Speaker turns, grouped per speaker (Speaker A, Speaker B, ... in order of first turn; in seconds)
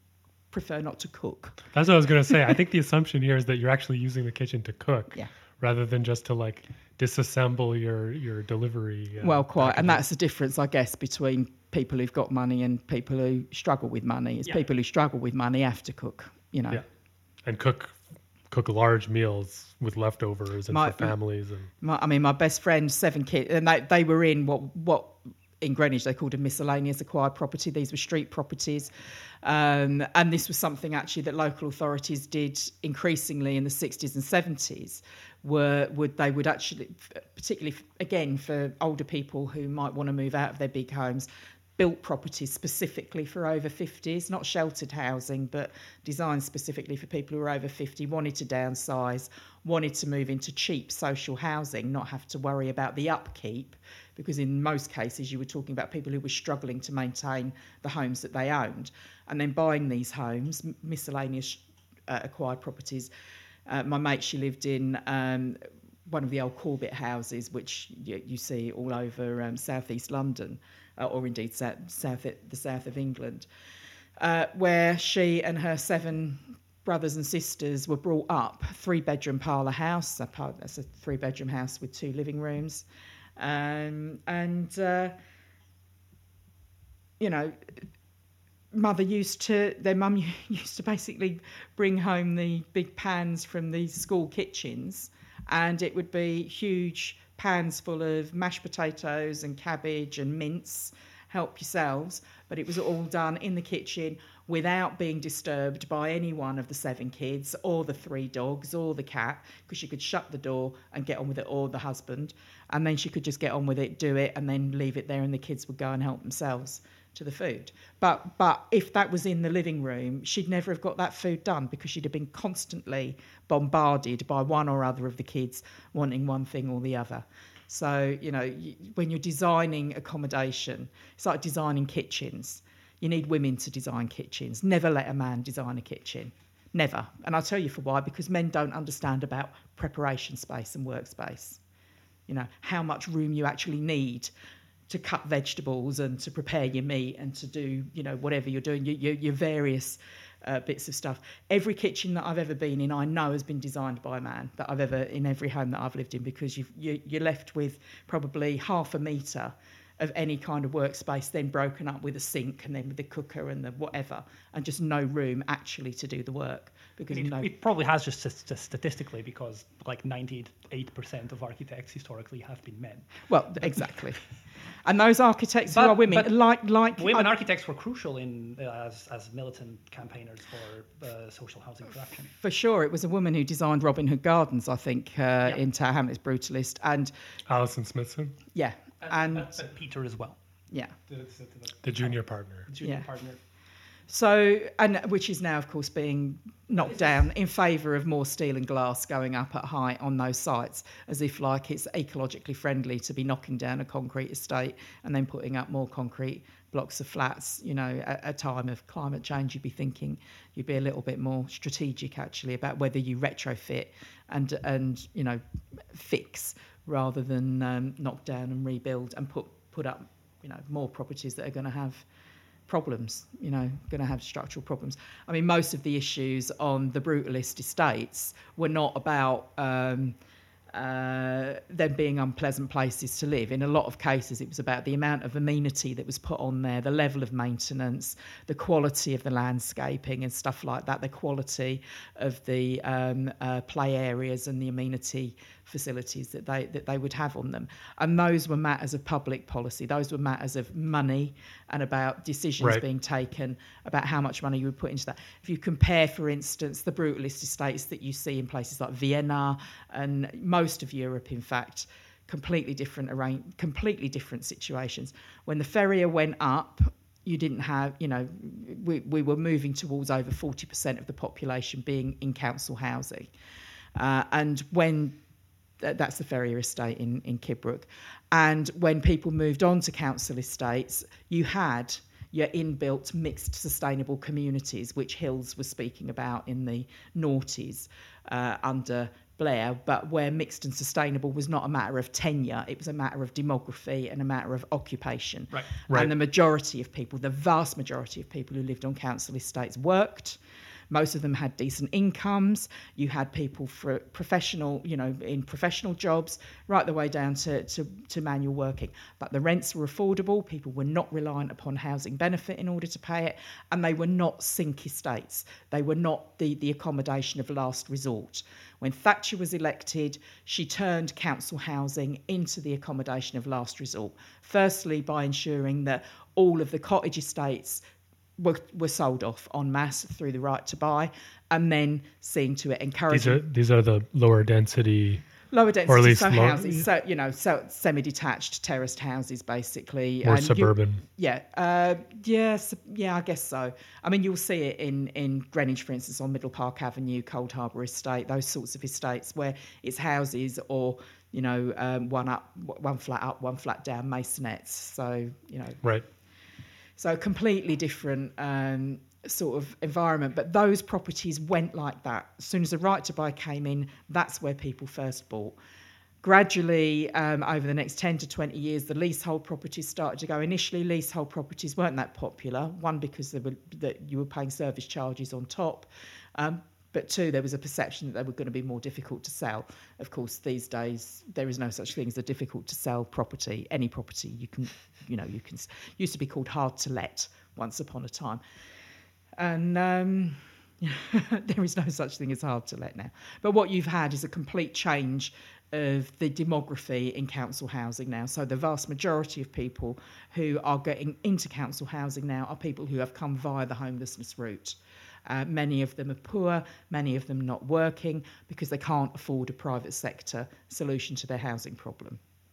Speaker A: 0.5-1.6, 9.2-16.8, 20.7-21.1, 21.8-28.9, 29.4-63.1, 63.7-73.5, 74.2-82.8, 83.4-85.1, 87.2-87.8, 88.7-141.6, 142.3-144.3, 144.9-167.5, 173.3-174.2, 174.8-177.3, 182.4-187.1, 188.5-189.6, 194.1-215.4, 215.9-222.1, 222.7-230.2, 230.7-273.3, 274.0-275.2, 275.8-300.4, 300.9-327.8, 328.4-333.4, 335.5-355.8, 357.0-365.6, 366.2-388.4, 389.4-412.2
Speaker B: 1.7-10.0, 17.4-21.7, 187.5-188.4, 191.8-192.7, 333.1-335.2, 335.9-336.9, 340.2-341.0
Speaker C: 167.1-173.1, 175.7-176.4, 177.0-182.3, 189.0-190.4, 191.1-193.4